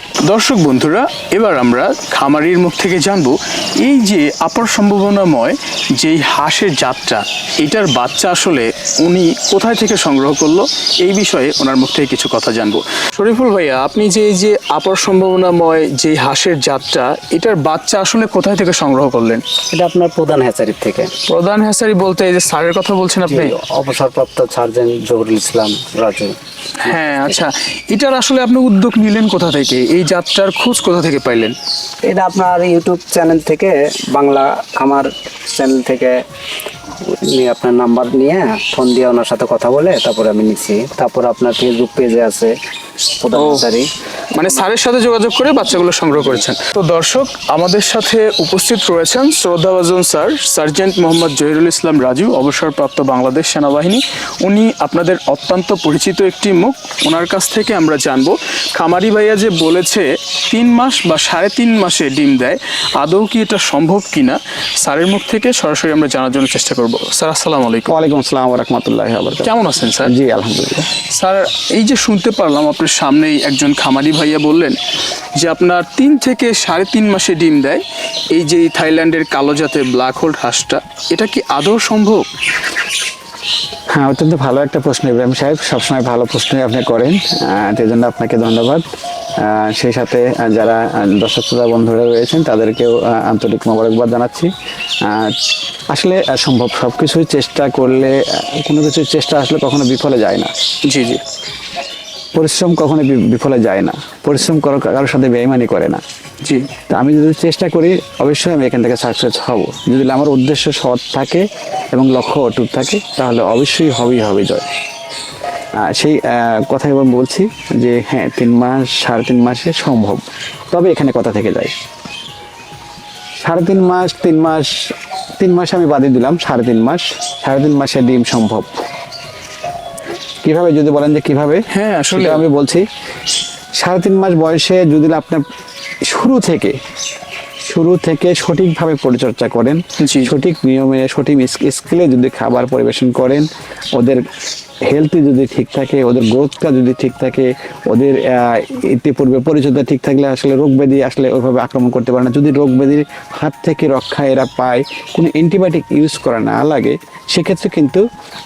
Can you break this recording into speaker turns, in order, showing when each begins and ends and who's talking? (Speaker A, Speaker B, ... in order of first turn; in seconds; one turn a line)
Speaker A: 0.2-19.4
Speaker B: 19.7-21.1
Speaker A: 21.3-23.5
Speaker B: 23.3-26.3
Speaker A: 26.8-31.6
Speaker B: 26.9-27.4
Speaker B: 32.1-36.2
Speaker B: 37.0-42.5
Speaker B: 43.2-43.9
Speaker A: 43.3-43.6
Speaker A: 44.3-68.0
Speaker C: 67.9-70.9
Speaker A: 69.4-70.1
Speaker A: 71.1-74.8
Speaker A: 75.4-77.8
Speaker A: 78.3-82.3
Speaker C: 83.9-88.8
Speaker C: 89.4-94.5
Speaker C: 95.0-100.5
Speaker A: 100.8-101.2
Speaker C: 102.3-106.0
Speaker A: 106.4-106.7
Speaker C: 106.9-114.7
Speaker C: 115.7-121.7
Speaker C: 123.4-128.7
Speaker C: 130.4-132.9
Speaker A: 131.7-132.4
Speaker C: 133.8-135.4
Speaker C: 136.1-136.8
Speaker C: 137.7-144.3
Speaker A: 140.0-140.3
Speaker C: 144.9-158.1